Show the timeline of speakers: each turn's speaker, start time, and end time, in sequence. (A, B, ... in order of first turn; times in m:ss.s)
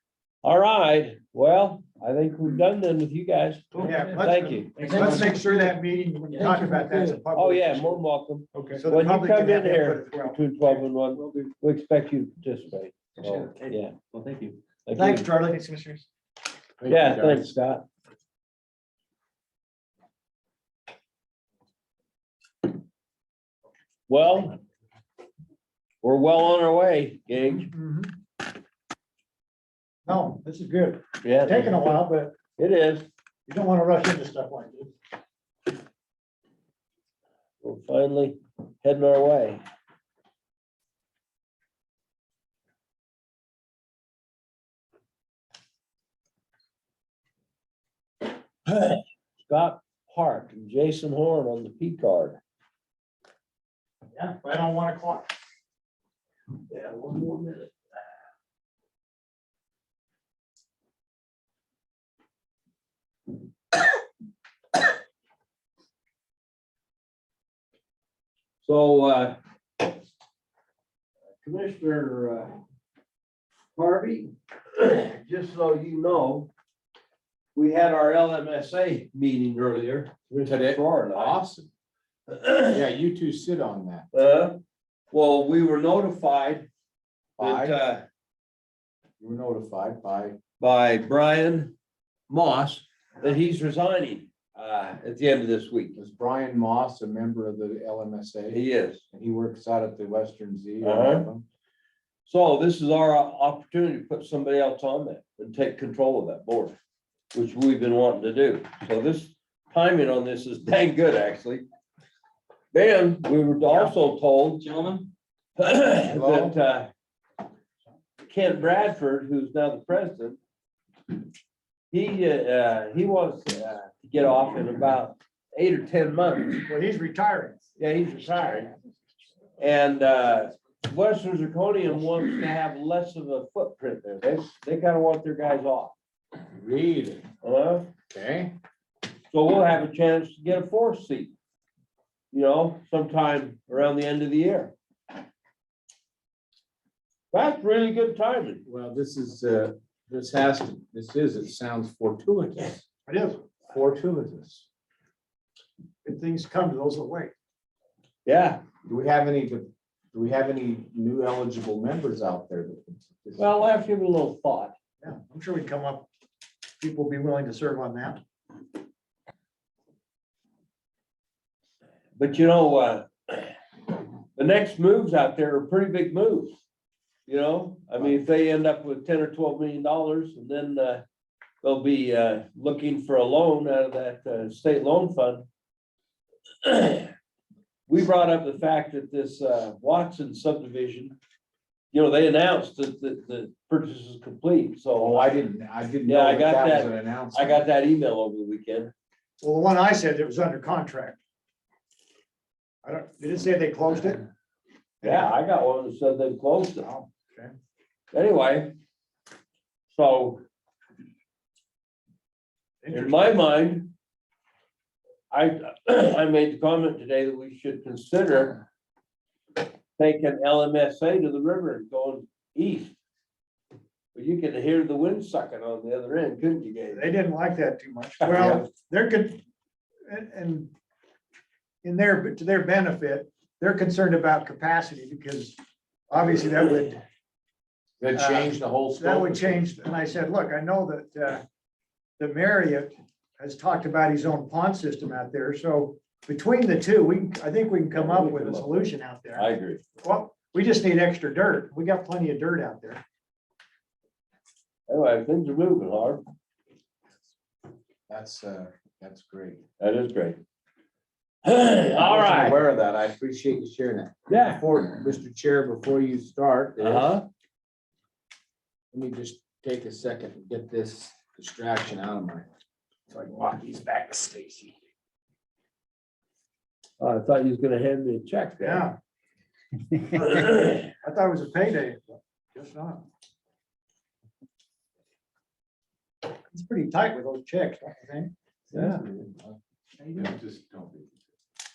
0:00.4-0:05.2 A
0:03.7-0:04.2 B
0:03.8-0:08.0 C
0:04.7-0:05.6 B
0:06.3-0:07.2 B
0:07.3-0:14.0 A
0:08.7-0:10.8 C
0:11.1-0:11.5 B
0:13.2-0:14.6 B
0:14.8-0:15.3 A
0:14.9-0:16.0 C
0:16.8-0:17.5 D
0:16.9-0:17.8 A
0:24.1-0:24.6 A
0:26.0-0:27.7 A
0:27.7-0:28.2 C
0:30.0-0:32.3 C
0:31.2-0:33.1 A
0:33.5-0:34.9 C
0:37.6-0:39.6 A
0:48.7-0:52.4 A
0:54.1-0:55.3 C
0:56.7-0:57.7 A
1:08.6-1:09.8 A
1:11.4-1:12.6 A
1:13.7-1:16.5 A
1:17.5-1:21.4 A
1:20.4-1:21.7 D
1:22.3-1:22.8 A
1:22.7-1:24.1 D
1:24.1-1:24.6 A
1:25.1-1:26.7 A
1:27.4-1:27.8 D
1:27.4-1:28.0 A
1:29.2-1:30.4 D
1:30.6-1:31.7 A
1:32.3-1:36.0 A
1:36.0-1:41.4 D
1:38.5-1:39.0 A
1:40.8-1:41.3 A
1:42.2-1:46.8 A
1:47.3-1:51.6 A
1:52.7-1:54.7 A
1:54.6-1:55.1 B
1:55.6-1:56.9 A
1:56.1-1:56.6 D
1:58.2-2:00.4 A
2:01.9-2:06.6 A
2:06.7-2:07.6 C
2:07.8-2:08.7 A
2:09.6-2:15.9 A
2:16.5-2:17.2 D
2:17.4-2:17.9 A
2:18.1-2:18.5 D
2:19.3-2:21.3 A
2:22.3-2:24.7 A
2:27.3-2:28.6 A
2:28.6-2:32.8 D
2:33.1-2:33.5 C
2:33.7-2:34.6 D
2:36.0-2:37.3 C
2:38.2-2:38.6 A
2:38.8-2:43.5 D
2:43.4-2:44.7 A
2:45.0-2:46.1 C
2:46.8-2:48.2 C
2:52.2-2:53.5 A
2:54.3-2:56.6 A
2:57.2-3:01.0 A
3:01.6-3:05.4 A
3:06.6-3:07.1 A
3:07.9-3:11.1 A
3:11.9-3:15.4 A
3:15.0-3:17.6 D
3:16.0-3:18.9 A
3:19.4-3:21.2 C
3:22.8-3:24.2 C
3:25.0-3:25.3 C
3:25.0-3:26.9 A
3:26.8-3:27.5 C
3:28.1-3:28.8 A
3:29.9-3:30.4 A
3:32.8-3:33.4 C
3:32.9-3:33.9 A
3:35.3-3:38.6 A
3:40.0-3:43.0 A
3:44.1-3:47.1 A
3:46.9-3:49.4 C
3:48.2-3:48.7 A
3:50.1-3:50.7 C
3:51.8-3:55.6 C
3:56.1-3:57.0 C
3:58.0-3:59.6 D
3:58.1-4:01.4 C
4:02.2-4:09.5 C
4:07.9-4:09.8 A
4:10.0-4:13.0 C
4:14.9-4:16.2 A
4:18.1-4:19.6 D
4:19.8-4:20.4 A
4:21.4-4:22.6 A
4:22.0-4:27.2 D
4:24.3-4:24.8 A
4:26.8-4:27.3 A
4:28.9-4:32.4 D
4:33.1-4:34.7 D
4:37.0-4:38.9 A
4:38.6-4:39.0 C
4:40.1-4:40.9 A
4:40.9-4:43.0 C
4:46.5-4:48.3 C
4:48.7-4:49.0 A
4:48.8-4:51.2 D